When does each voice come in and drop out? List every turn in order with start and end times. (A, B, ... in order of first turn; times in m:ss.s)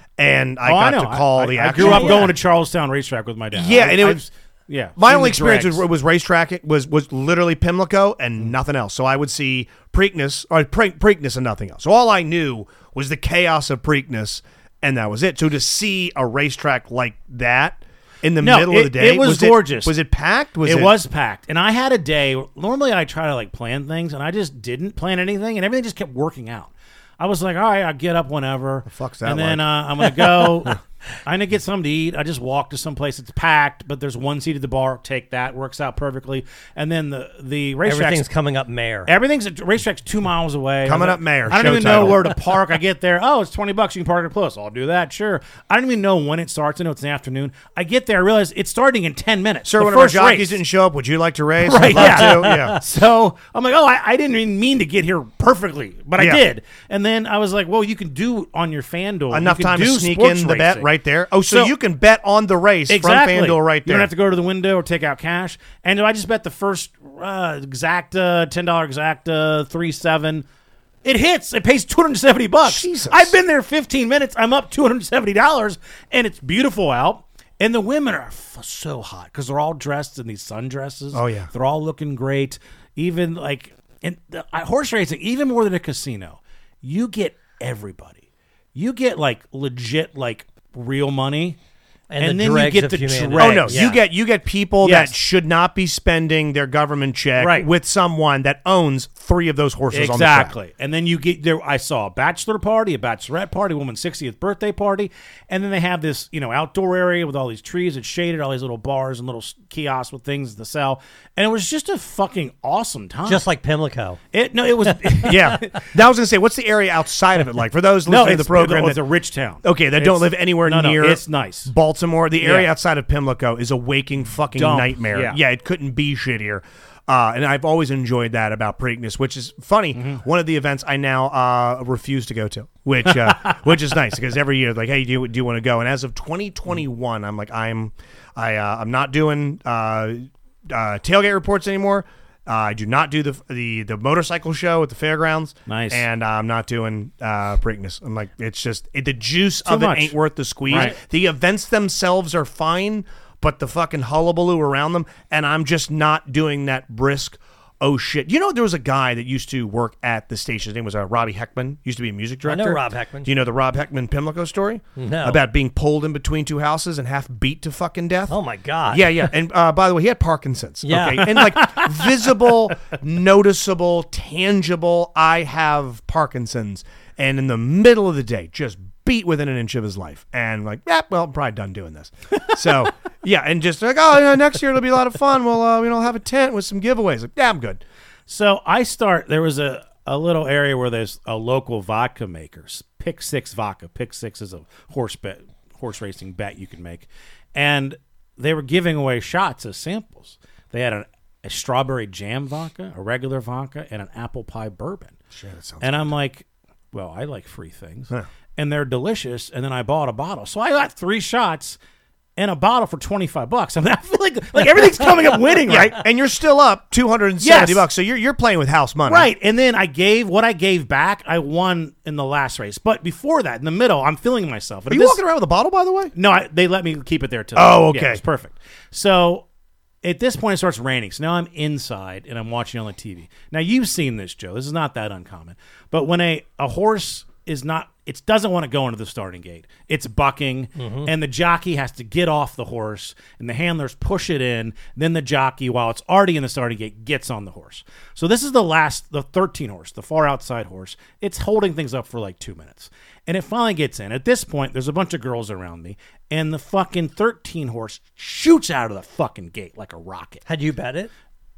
0:00.2-0:02.3 A
0:00.6-0:05.8 B
0:01.8-0:02.3 C
0:03.5-0:04.3 A
0:05.0-0:21.0 A
0:18.4-0:20.0 B
0:20.6-0:38.3 B
0:28.9-0:29.6 A
0:30.2-0:30.8 C
0:37.8-0:39.1 C
0:39.1-0:50.6 B
0:40.8-0:42.3 A
0:49.6-0:52.8 A
0:51.6-1:00.9 B
0:51.8-0:52.8 C
0:56.2-0:56.4 A
0:59.3-1:04.1 A
1:01.5-1:01.7 B
1:02.9-1:10.4 B
1:11.0-1:28.2 B
1:12.6-1:13.4 A
1:21.1-1:21.5 A
1:28.8-1:31.6 B
1:32.1-1:34.0 C
1:32.2-1:33.9 B
1:33.4-1:40.6 A
1:34.8-1:35.2 B
1:37.4-1:37.7 B
1:39.9-1:53.4 B
1:53.3-1:54.2 C
1:54.3-1:55.8 B
1:55.3-1:59.0 A
1:58.1-2:01.7 B
1:59.6-2:48.4 A
2:02.4-2:02.7 B
2:04.6-2:05.4 B
2:10.0-2:10.2 B
2:25.7-2:26.0 B
2:29.7-2:31.0 B
2:42.4-2:43.3 C
2:45.0-2:45.4 C
2:48.3-2:49.3 C
2:48.9-3:07.8 A
2:50.8-2:51.3 C
2:51.2-2:52.6 B
3:08.3-3:25.2 B
3:25.3-3:26.1 A
3:25.8-3:31.8 B
3:32.4-3:36.0 B
3:35.7-3:39.3 A
3:37.4-3:37.9 B
3:39.1-3:45.2 B
3:44.9-3:46.1 A
3:46.2-3:49.4 B
3:47.6-3:48.2 A
3:50.0-4:20.4 B
4:00.8-4:01.1 C
4:20.5-4:21.1 C